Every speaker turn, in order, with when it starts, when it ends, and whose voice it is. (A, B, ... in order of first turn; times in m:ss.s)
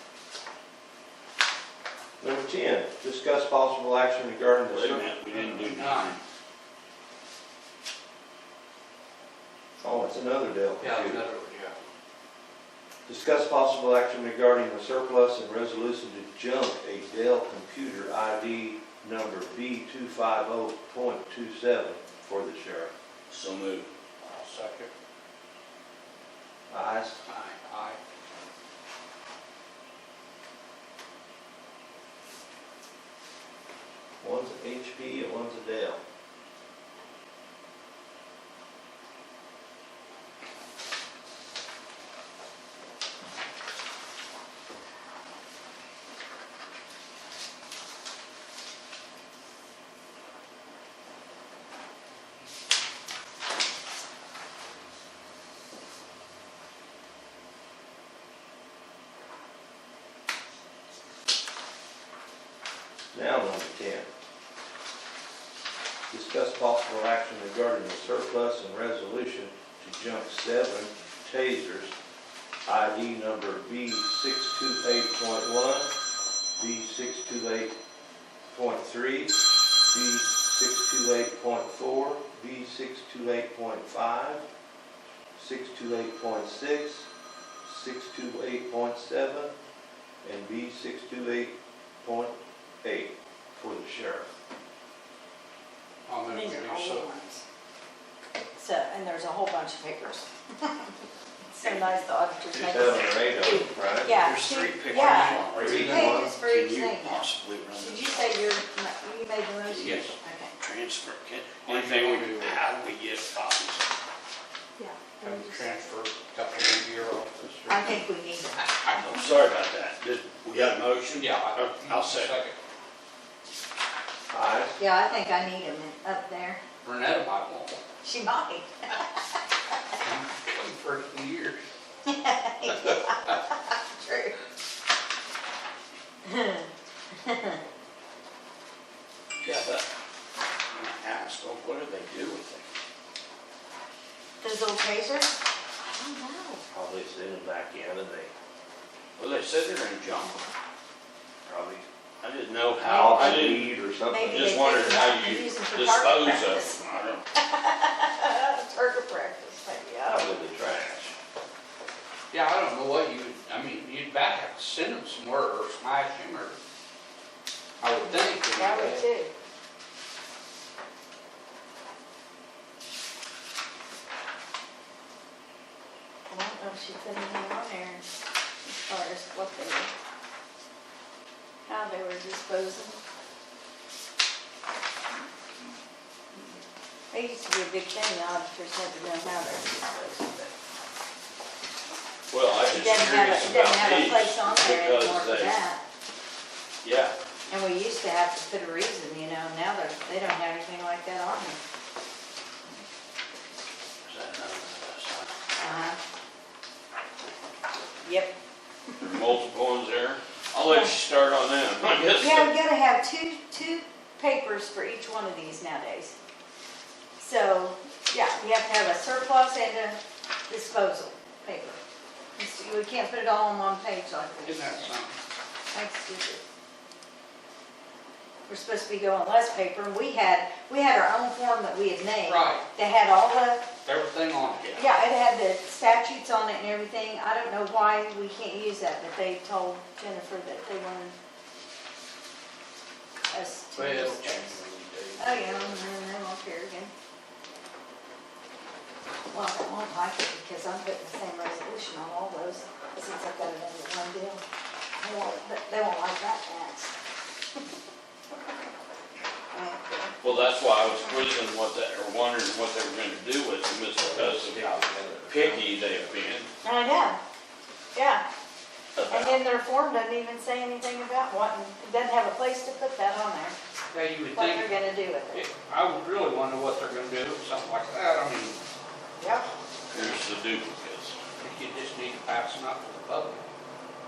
0:02.2-0:05.1 A
0:04.7-0:06.2 B
0:05.3-0:06.2 C
0:09.8-0:11.2 A
0:10.8-0:11.8 C
0:13.1-0:22.9 A
0:23.3-0:23.9 B
0:24.2-0:24.9 C
0:26.7-0:27.2 A
0:27.3-0:28.0 C
0:34.2-0:36.0 A
1:03.1-1:04.1 A
1:06.1-1:11.9 A
1:12.7-1:15.9 A
1:16.6-1:17.7 A
1:18.5-1:24.4 A
1:25.4-1:27.1 A
1:27.6-1:29.5 A
1:30.2-1:34.3 A
1:36.1-1:37.1 C
1:36.3-1:37.4 D
1:38.6-1:40.7 D
1:41.5-1:50.5 D
1:42.5-1:44.2 A
1:44.2-1:48.3 B
1:44.4-1:46.0 C
1:45.6-1:46.4 A
1:49.7-1:53.8 B
1:51.6-1:52.6 C
1:54.8-1:55.8 D
1:55.2-1:58.0 C
1:57.7-1:58.6 D
1:58.6-1:59.3 C
1:59.0-2:02.3 B
2:01.1-2:02.6 C
2:04.3-2:04.8 A
2:04.8-2:06.6 D
2:06.8-2:07.8 C
2:08.0-2:09.2 D
2:10.0-2:11.6 C
2:12.1-2:14.4 D
2:16.3-2:16.7 D
2:17.2-2:17.6 D
2:19.4-2:19.8 B
2:21.0-2:22.7 B
2:24.4-2:26.6 D
2:26.7-2:28.3 A
2:29.2-2:30.4 B
2:31.5-2:31.8 A
2:32.2-2:37.2 B
2:32.8-2:36.8 D
2:32.8-2:34.5 A
2:37.4-2:40.4 D
2:40.1-2:41.1 A
2:42.3-2:46.6 C
2:47.8-2:49.0 C
2:48.4-2:49.3 D
2:56.3-2:58.1 D
2:58.6-2:59.9 D
3:01.7-3:03.0 D
3:07.1-3:10.5 D
3:12.3-3:15.6 B
3:12.7-3:15.8 D
3:16.8-3:17.2 B
3:17.5-3:21.6 D
3:24.0-3:25.3 B
3:25.6-3:26.0 D
3:28.0-3:28.3 D
3:29.0-3:32.5 B
3:30.6-3:30.9 D
3:32.2-3:36.2 D
3:37.2-3:41.8 D
3:42.4-3:44.9 D
3:44.4-3:45.2 C
3:45.7-3:46.4 D
3:48.5-3:53.7 D
3:52.2-3:52.6 C
3:53.8-3:54.9 C
3:54.8-4:01.2 D
4:03.3-4:04.6 D
4:03.8-4:04.8 C
4:04.8-4:05.5 B
4:05.2-4:06.9 D
4:09.3-4:14.4 D
4:15.0-4:17.0 D
4:19.5-4:20.2 D
4:20.2-4:24.7 B
4:24.0-4:26.2 A
4:25.3-4:26.5 B
4:26.6-4:27.2 D
4:28.0-4:28.2 D
4:29.0-4:29.4 B
4:29.1-4:33.6 D
4:33.9-4:34.8 C
4:34.3-4:35.5 D
4:35.3-4:38.6 C
4:39.2-4:39.5 D
4:39.9-4:41.2 B
4:41.4-4:43.4 C